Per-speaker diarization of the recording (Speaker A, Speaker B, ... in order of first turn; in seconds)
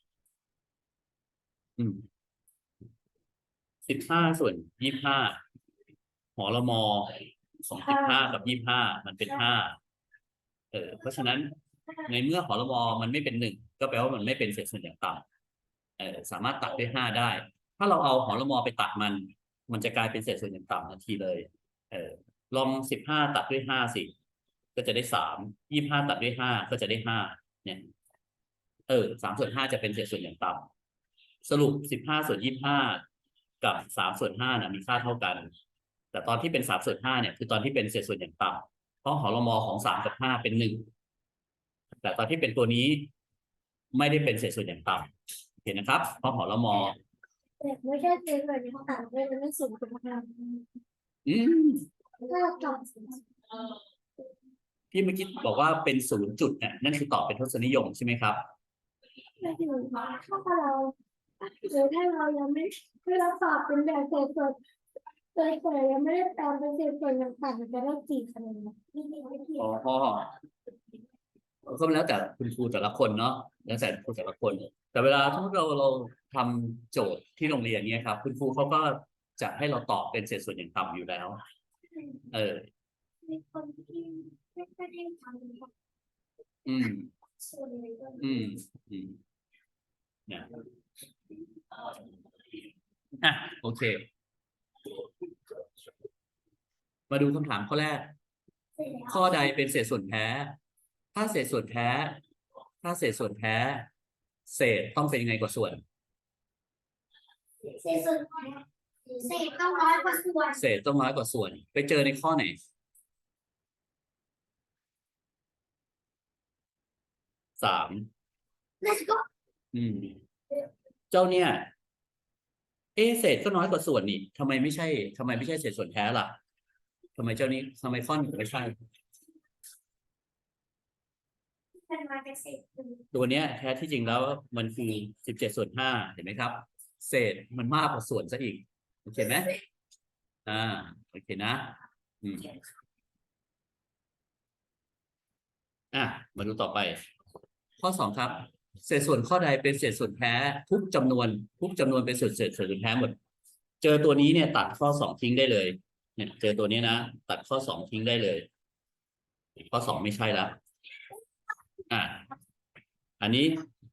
Speaker A: 1.8-2.0, 3.9-5.4, 6.4-9.8, 10.7-11.5, 12.0-15.2, 16.0-24.1, 24.8-27.9, 28.9-30.7, 31.4-33.0, 33.6-35.5, 36.1-40.9, 42.0-43.1, 43.9-45.1, 45.6-47.0, 51.2-51.9, 54.9-58.4, 69.6-70.3, 71.7-81.4, 82.3-82.7, 86.7-87.1, 88.2-89.2, 93.2-94.0, 97.1-98.1, 99.0-100.6, 101.1-102.2, 102.8-103.9, 104.5-105.8, 110.5-112.6, 117.6-118.1, 119.7-120.2, 121.1-121.7, 123.0-126.4, 127.1-128.7, 133.1-139.6, 140.4-142.5, 145.9-147.0, 147.8-153.2, 153.8-158.5, 159.7-160.6, 161.9-162.3, 163.2-163.7
Speaker B: 47.6-50.6, 52.2-53.2, 59.4-64.6, 65.3-69.7, 83.2-85.7, 87.4-88.4, 107.7-110.5, 118.8-119.2, 131.9-133.0